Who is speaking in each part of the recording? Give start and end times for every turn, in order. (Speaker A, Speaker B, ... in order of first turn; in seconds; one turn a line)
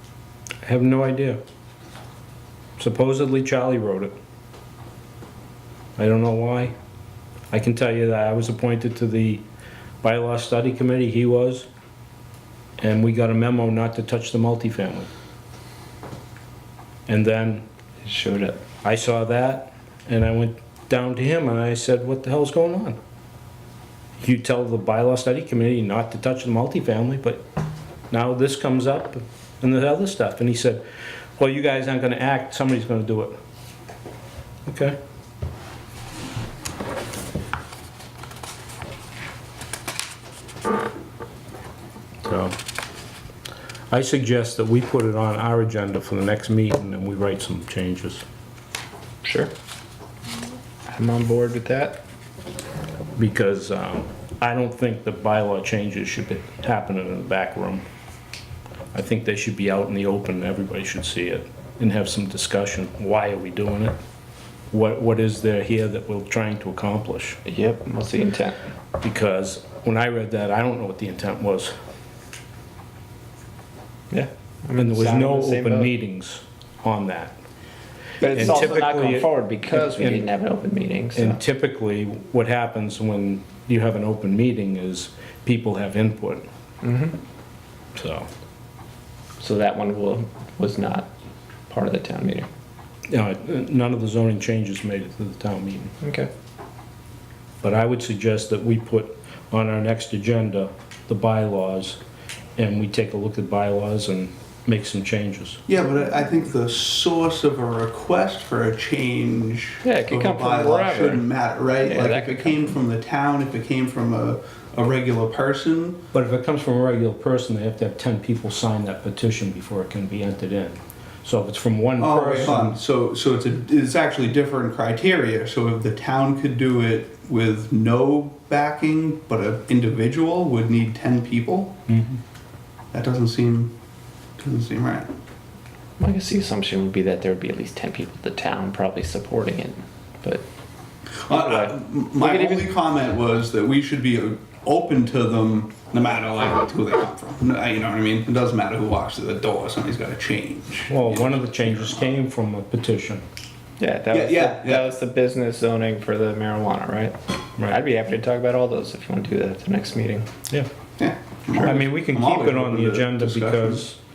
Speaker A: 0.6-1.4
Speaker A: 2.8-4.2
Speaker A: 6.0-6.7
Speaker A: 7.5-9.4
Speaker A: 10.0-11.7
Speaker A: 12.8-15.1
Speaker A: 17.1-17.6
Speaker B: 18.0-18.6
Speaker A: 18.8-23.0
Speaker A: 24.2-27.4
Speaker A: 28.1-30.8
Speaker A: 31.4-33.4
Speaker A: 34.6-35.0
Speaker A: 42.2-42.5
Speaker A: 43.9-48.2
Speaker B: 49.2-49.5
Speaker B: 50.9-52.0
Speaker A: 53.2-57.9
Speaker A: 58.9-64.0
Speaker A: 64.7-67.4
Speaker B: 67.4-68.6
Speaker A: 69.0-71.7
Speaker B: 74.1-75.9
Speaker A: 74.8-77.3
Speaker B: 78.2-81.4
Speaker A: 78.3-80.3
Speaker A: 81.2-86.5
Speaker B: 86.8-87.2
Speaker A: 88.0-88.3
Speaker B: 89.4-91.1
Speaker B: 91.7-92.5
Speaker A: 93.1-95.9
Speaker B: 96.0-96.3
Speaker A: 97.6-102.0
Speaker A: 102.6-105.6
Speaker C: 105.7-116.0
Speaker B: 109.8-111.3
Speaker B: 111.8-112.5
Speaker A: 116.1-122.7
Speaker C: 122.0-131.8
Speaker A: 131.9-132.2
Speaker C: 132.9-133.7
Speaker C: 134.4-135.1
Speaker B: 136.0-140.4
Speaker C: 141.3-152.1
Speaker B: 141.3-142.7
Speaker A: 150.9-153.2
Speaker B: 153.8-160.3
Speaker C: 154.1-154.9
Speaker C: 161.0-163.8
Speaker A: 161.6-164.0